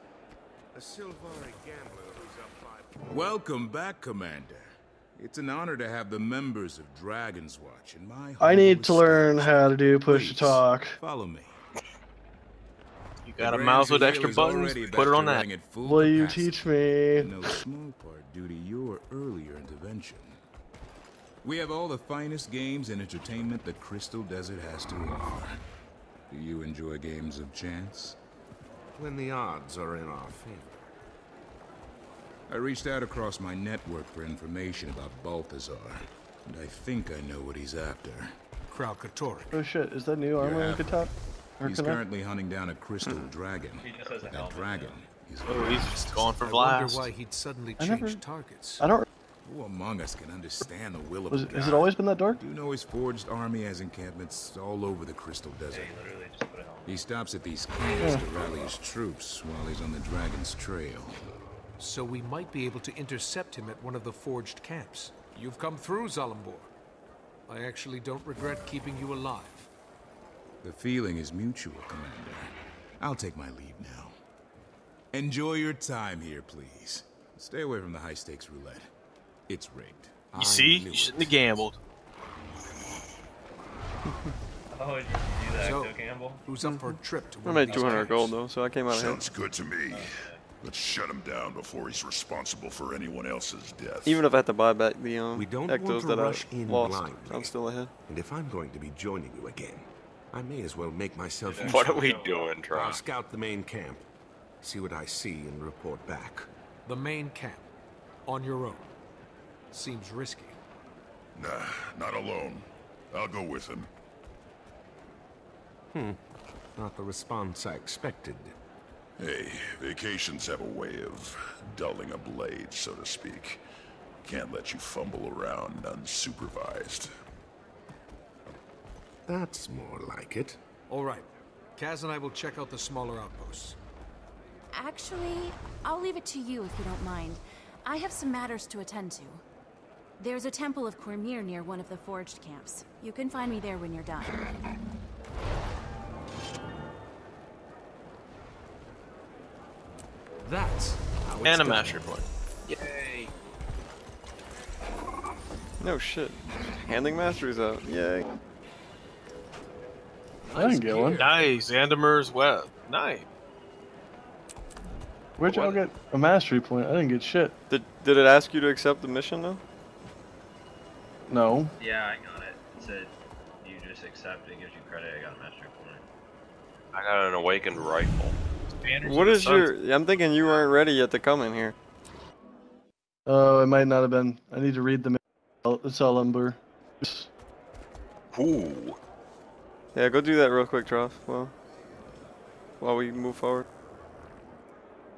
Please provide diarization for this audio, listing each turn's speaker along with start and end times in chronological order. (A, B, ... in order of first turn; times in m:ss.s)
0:00.7-0:03.3 A
0:03.1-0:11.6 B
0:08.4-0:11.0 C
0:13.3-0:15.5 D
0:13.4-0:20.4 B
0:15.8-0:17.3 C
0:21.4-0:25.6 B
0:26.3-0:28.2 B
0:29.0-0:30.8 A
0:32.5-0:38.4 B
0:38.7-0:39.6 E
0:39.5-0:42.0 C
0:40.4-0:41.1 B
0:41.6-0:46.3 B
0:43.8-0:45.0 F
0:45.4-0:47.1 D
0:46.4-0:48.9 E
0:47.8-0:48.2 C
0:48.8-0:49.0 C
0:49.4-0:56.0 B
0:51.3-0:52.4 C
0:55.7-0:57.0 F
0:56.8-1:01.1 B
1:01.8-1:06.7 E
1:07.5-1:09.7 E
1:10.6-1:14.1 B
1:15.1-1:18.9 B
1:19.5-1:21.5 B
1:20.3-1:21.8 D
1:24.7-1:26.4 F
1:25.6-1:28.3 E
1:27.4-1:29.2 G
1:28.9-1:34.2 H
1:29.9-1:30.4 F
1:34.0-1:37.9 G
1:35.3-1:37.6 A
1:38.1-1:42.1 A
1:41.4-1:42.5 F
1:41.6-1:43.0 I
1:42.7-1:44.0 A
1:44.6-1:46.5 A
1:46.8-1:47.7 E
1:48.3-1:48.9 E
1:49.7-1:50.6 E
1:51.4-1:53.9 H
1:55.9-1:56.2 A
1:56.8-1:58.6 A
1:59.2-2:03.6 H
2:04.2-2:07.1 H
2:09.3-2:10.6 A
2:10.9-2:13.8 E
2:14.7-2:19.4 J
2:20.2-2:24.5 J
2:30.4-2:32.2 E
2:31.4-2:32.2 D
2:35.8-2:38.3 G
2:40.5-2:41.2 E
2:40.5-2:41.3 C
2:41.2-2:43.3 D
2:45.4-2:47.5 C
2:45.4-2:45.8 D
2:47.7-2:49.6 G
2:51.3-2:51.7 C
2:51.8-2:56.0 F
2:56.9-2:58.4 I
2:58.7-2:59.7 D
2:59.0-3:01.7 G
3:03.3-3:07.3 C
3:08.3-3:09.0 I
3:10.0-3:11.5 G
3:12.8-3:13.6 G